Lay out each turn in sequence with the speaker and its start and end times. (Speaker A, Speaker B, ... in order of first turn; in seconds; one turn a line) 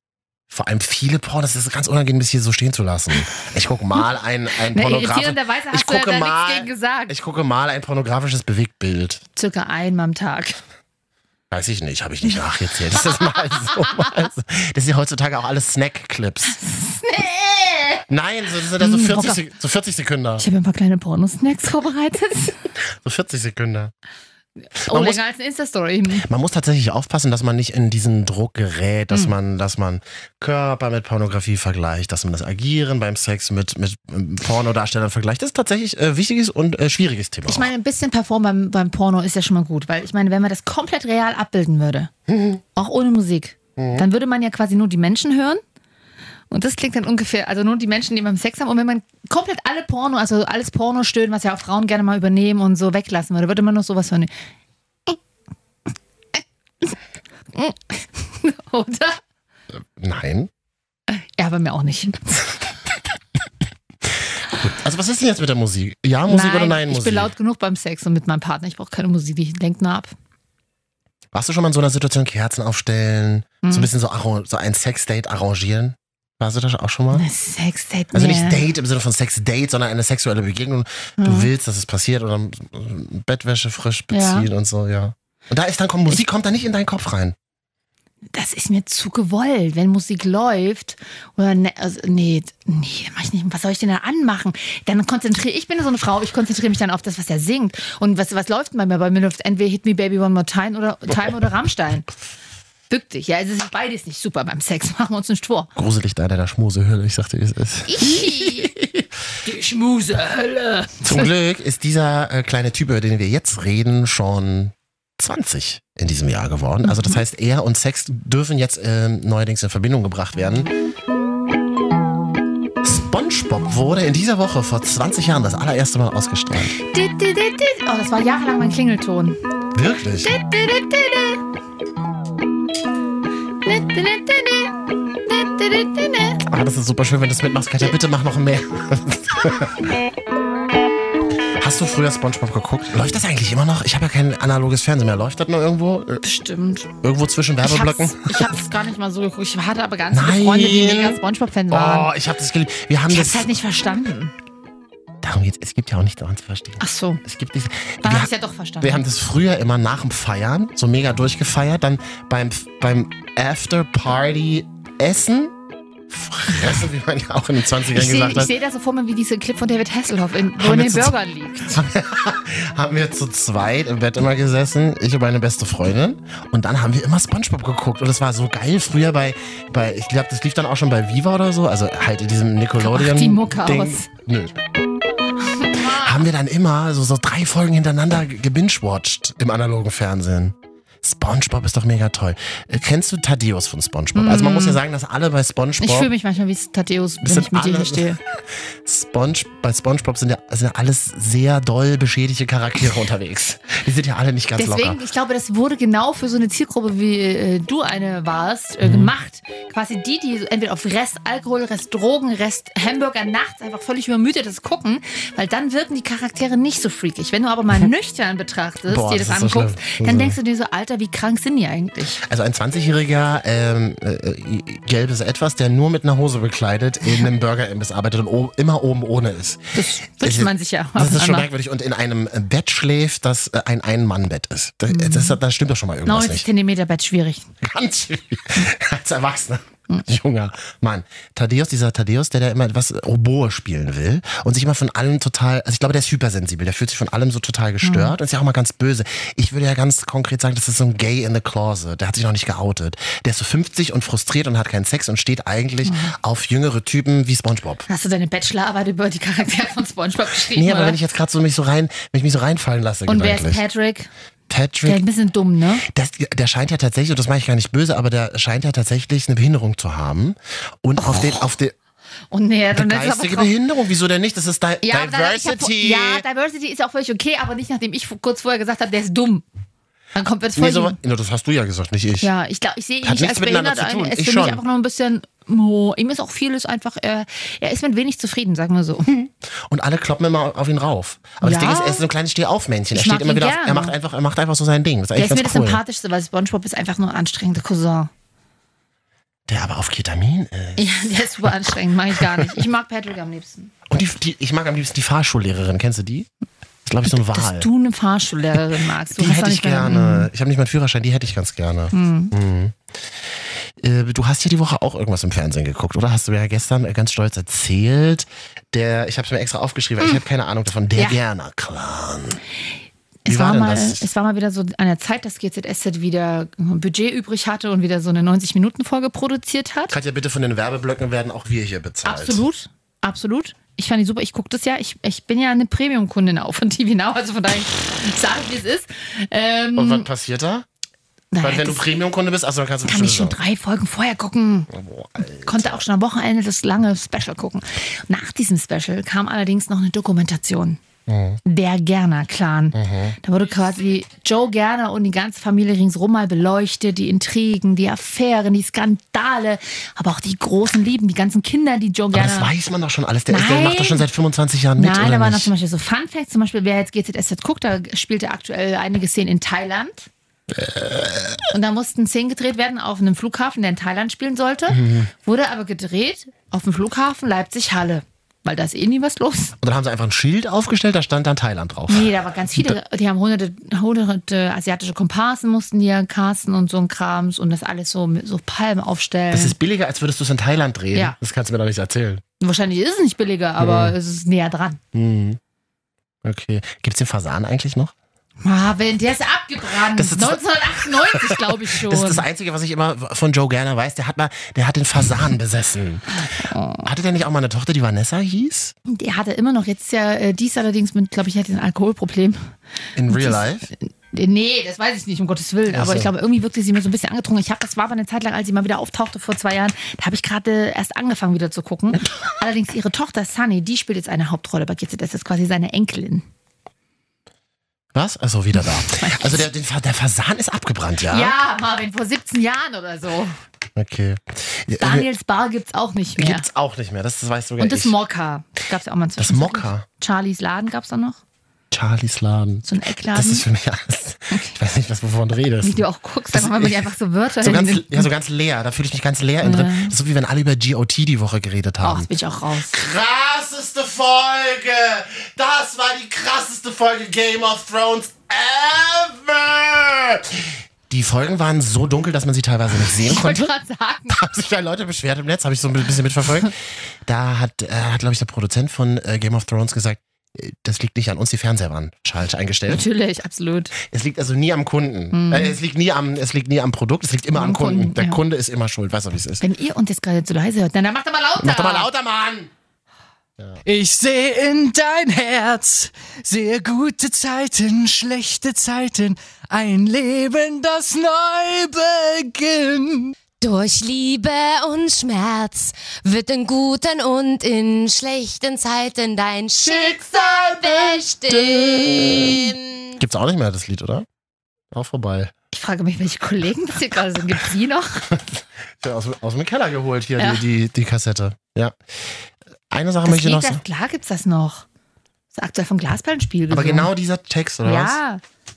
Speaker A: 0.5-9.2
Speaker B: 4.7-7.1
Speaker B: 9.3-10.6
Speaker A: 11.5-16.6
Speaker B: 13.1-13.8
Speaker B: 16.4-18.0
Speaker A: 18.1-20.4
Speaker B: 18.8-19.4
Speaker B: 20.4-22.6
Speaker A: 22.8-23.9
Speaker B: 24.7-26.2
Speaker A: 24.8-25.2
Speaker A: 26.2-37.7
Speaker B: 37.5-42.1
Speaker A: 42.3-42.6
Speaker B: 42.7-45.6
Speaker A: 43.8-44.1
Speaker B: 46.5-54.3
Speaker B: 56.4-57.0
Speaker B: 57.5-59.2
Speaker A: 59.7-60.5
Speaker B: 61.1-62.5
Speaker A: 64.5-67.3
Speaker B: 66.3-70.1
Speaker A: 71.3-77.2
Speaker B: 73.6-73.9
Speaker B: 77.1-78.6
Speaker A: 78.1-87.3
Speaker B: 81.2-81.5
Speaker B: 84.1-84.5
Speaker B: 88.3-102.1
Speaker B: 102.9-105.7
Speaker A: 105.8-109.1
Speaker B: 107.8-108.7
Speaker B: 109.4-111.3
Speaker A: 111.0-120.7
Speaker B: 116.8-117.2
Speaker A: 122.8-126.8
Speaker B: 126.8-129.4
Speaker A: 129.7-130.3
Speaker B: 130.2-131.4
Speaker B: 133.6-136.4
Speaker A: 136.4-139.9
Speaker A: 141.6-146.2
Speaker B: 146.2-146.9
Speaker A: 147.0-148.5
Speaker B: 147.6-152.1
Speaker A: 150.1-151.2
Speaker A: 151.7-153.5
Speaker B: 153.1-154.3
Speaker A: 155.2-165.5
Speaker B: 156.8-157.2
Speaker B: 158.0-159.0
Speaker A: 166.1-168.5
Speaker B: 167.9-171.8
Speaker A: 170.6-184.6
Speaker B: 182.8-184.1
Speaker B: 185.6-186.2
Speaker A: 185.8-196.1
Speaker B: 194.1-194.8
Speaker B: 195.8-198.2
Speaker A: 197.2-198.2
Speaker A: 198.8-205.0
Speaker B: 204.6-222.2
Speaker A: 208.8-209.1
Speaker A: 218.9-220.4
Speaker A: 222.2-236.5
Speaker B: 229.7-231.5
Speaker B: 234.9-235.4
Speaker B: 236.0-237.5
Speaker A: 237.6-257.9
Speaker B: 247.8-248.1
Speaker B: 255.8-256.1
Speaker B: 257.9-261.0
Speaker A: 260.5-263.6
Speaker B: 263.1-264.1
Speaker A: 264.5-265.0
Speaker B: 264.8-265.8
Speaker A: 265.8-271.7
Speaker B: 271.0-271.3
Speaker B: 272.3-273.5
Speaker A: 272.7-276.2
Speaker B: 274.8-279.4
Speaker B: 280.1-281.0
Speaker A: 280.6-282.3
Speaker B: 282.2-289.1
Speaker A: 283.0-284.6
Speaker A: 289.1-295.8
Speaker B: 291.4-292.0
Speaker B: 292.9-293.9
Speaker B: 295.1-298.1
Speaker A: 299.5-302.6
Speaker B: 300.8-303.7
Speaker A: 303.9-306.3
Speaker A: 306.8-307.7
Speaker B: 307.2-310.3
Speaker A: 309.1-312.8
Speaker B: 311.9-312.3
Speaker A: 313.8-322.4
Speaker B: 323.2-329.9
Speaker A: 323.3-324.1
Speaker A: 329.9-332.4
Speaker B: 332.0-340.1
Speaker A: 339.8-340.6
Speaker B: 341.3-341.9
Speaker A: 341.4-343.4
Speaker B: 342.8-344.7
Speaker A: 344.7-345.8
Speaker B: 345.4-350.8
Speaker A: 351.1-351.4
Speaker B: 351.4-362.5
Speaker A: 352.7-353.2
Speaker A: 362.1-365.5
Speaker B: 363.3-364.0
Speaker B: 364.8-370.1
Speaker A: 370.5-371.5
Speaker B: 371.5-379.5
Speaker A: 374.7-375.1
Speaker A: 379.6-382.8
Speaker B: 381.9-389.6
Speaker A: 389.3-392.2
Speaker B: 392.4-394.8
Speaker A: 393.6-393.9
Speaker A: 394.9-395.4
Speaker A: 396.2-397.9
Speaker B: 398.4-402.2
Speaker A: 399.7-406.2
Speaker B: 406.1-406.8
Speaker A: 406.8-408.7
Speaker B: 408.9-412.5
Speaker A: 412.9-413.7
Speaker B: 413.1-426.2
Speaker A: 415.7-416.1
Speaker A: 427.9-431.3
Speaker B: 429.0-429.3
Speaker B: 431.1-433.4
Speaker A: 433.8-435.1
Speaker B: 434.8-436.5
Speaker A: 436.1-437.9
Speaker B: 437.6-441.2
Speaker A: 439.2-439.8
Speaker A: 441.7-445.8
Speaker B: 442.6-443.4
Speaker B: 444.3-444.6
Speaker B: 445.6-448.1
Speaker A: 446.3-446.9
Speaker A: 447.4-452.1
Speaker B: 449.4-449.9
Speaker B: 451.8-452.8
Speaker A: 452.6-463.5
Speaker B: 462.9-464.2
Speaker A: 464.1-472.8
Speaker B: 472.7-473.7
Speaker A: 473.8-479.4
Speaker B: 475.1-475.6
Speaker B: 477.3-478.2
Speaker B: 479.4-481.9
Speaker A: 481.4-482.5
Speaker C: 483.6-493.1
Speaker D: 493.4-501.4
Speaker C: 496.1-496.3
Speaker C: 499.6-500.8
Speaker A: 500.6-504.1
Speaker A: 504.7-505.3
Speaker B: 505.5-508.1
Speaker A: 508.1-511.7
Speaker B: 510.2-510.4
Speaker A: 512.7-513.6
Speaker B: 513.0-514.6
Speaker B: 515.3-516.9
Speaker A: 516.5-518.0
Speaker B: 517.6-518.2